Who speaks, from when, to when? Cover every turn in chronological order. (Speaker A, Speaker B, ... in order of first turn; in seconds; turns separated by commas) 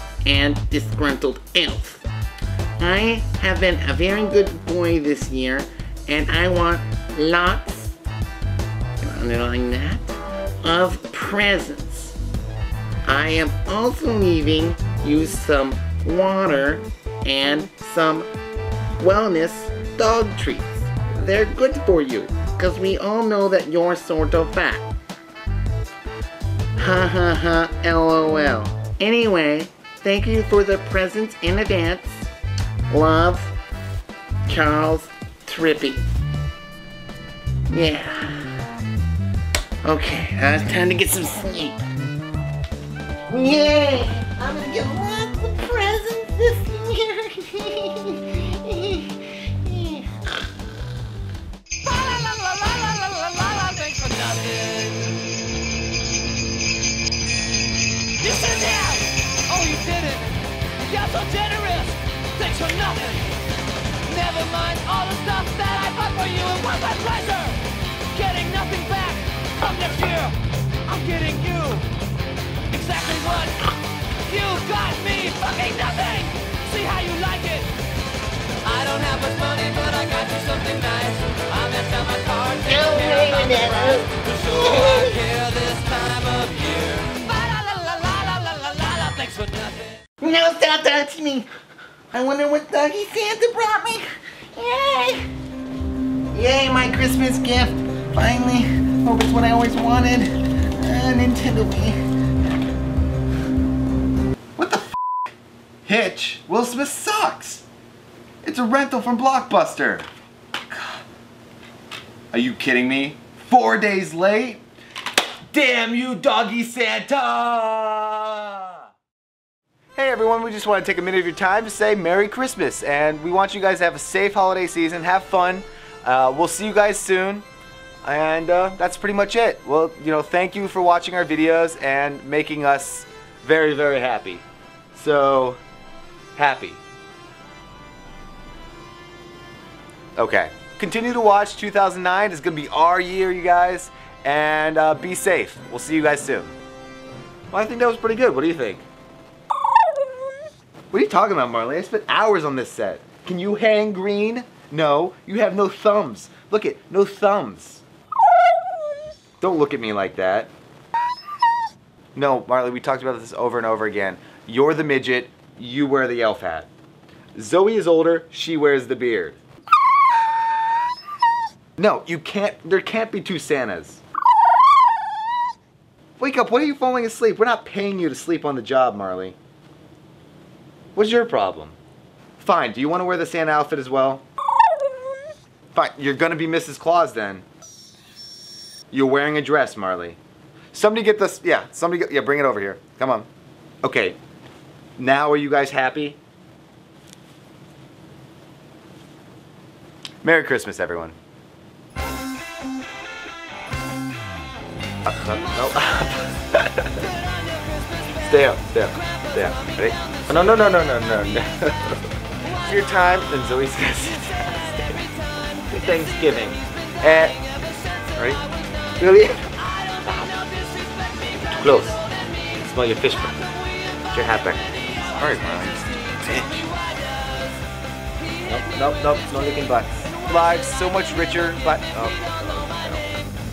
Speaker A: 0.2-2.0, Speaker A: 2.8-8.0, Speaker A: 9.0-12.2, Speaker A: 13.1-18.3, Speaker A: 19.0-24.9, Speaker A: 26.8-32.3, Speaker A: 32.9-33.5, Speaker A: 34.5-36.0, Speaker A: 37.7-38.5, Speaker A: 39.8-41.8, Speaker A: 43.3-50.3, Speaker B: 51.8-55.2, Speaker B: 58.2-63.4, Speaker B: 64.0-71.9, Speaker B: 72.7-77.7, Speaker B: 78.6-90.0, Speaker A: 82.6-85.2, Speaker A: 90.2-91.5, Speaker A: 92.1-94.0, Speaker A: 94.5-95.2, Speaker A: 96.3-102.0, Speaker C: 104.6-105.0, Speaker C: 105.8-107.7, Speaker C: 108.4-110.1, Speaker C: 110.7-111.0, Speaker C: 112.3-114.6, Speaker C: 115.5-118.9, Speaker C: 120.0-127.5, Speaker C: 128.0-135.6, Speaker C: 136.4-136.8, Speaker C: 140.2-146.6, Speaker C: 147.5-148.9, Speaker C: 150.9-157.8, Speaker C: 159.4-160.5, Speaker C: 162.2-166.7, Speaker C: 167.3-169.4, Speaker C: 171.8-174.0, Speaker C: 176.2-179.4, Speaker C: 180.9-181.8, Speaker C: 182.4-184.2, Speaker C: 185.7-187.4, Speaker C: 188.9-190.2, Speaker C: 190.7-193.3, Speaker C: 193.8-194.2, Speaker C: 195.0-196.2, Speaker C: 200.2-201.2, Speaker C: 205.1-207.1, Speaker B: 207.4-208.2, Speaker C: 208.2-214.9, Speaker B: 209.0-210.3, Speaker B: 214.5-216.6, Speaker C: 215.7-217.4, Speaker B: 217.6-218.4, Speaker C: 218.2-218.4, Speaker C: 219.0-219.5, Speaker B: 219.7-222.5, Speaker C: 221.5-222.0, Speaker C: 222.5-223.5, Speaker B: 223.9-227.6, Speaker C: 224.1-226.7, Speaker B: 228.2-229.6, Speaker C: 228.5-233.2, Speaker B: 230.2-231.0, Speaker B: 232.2-233.2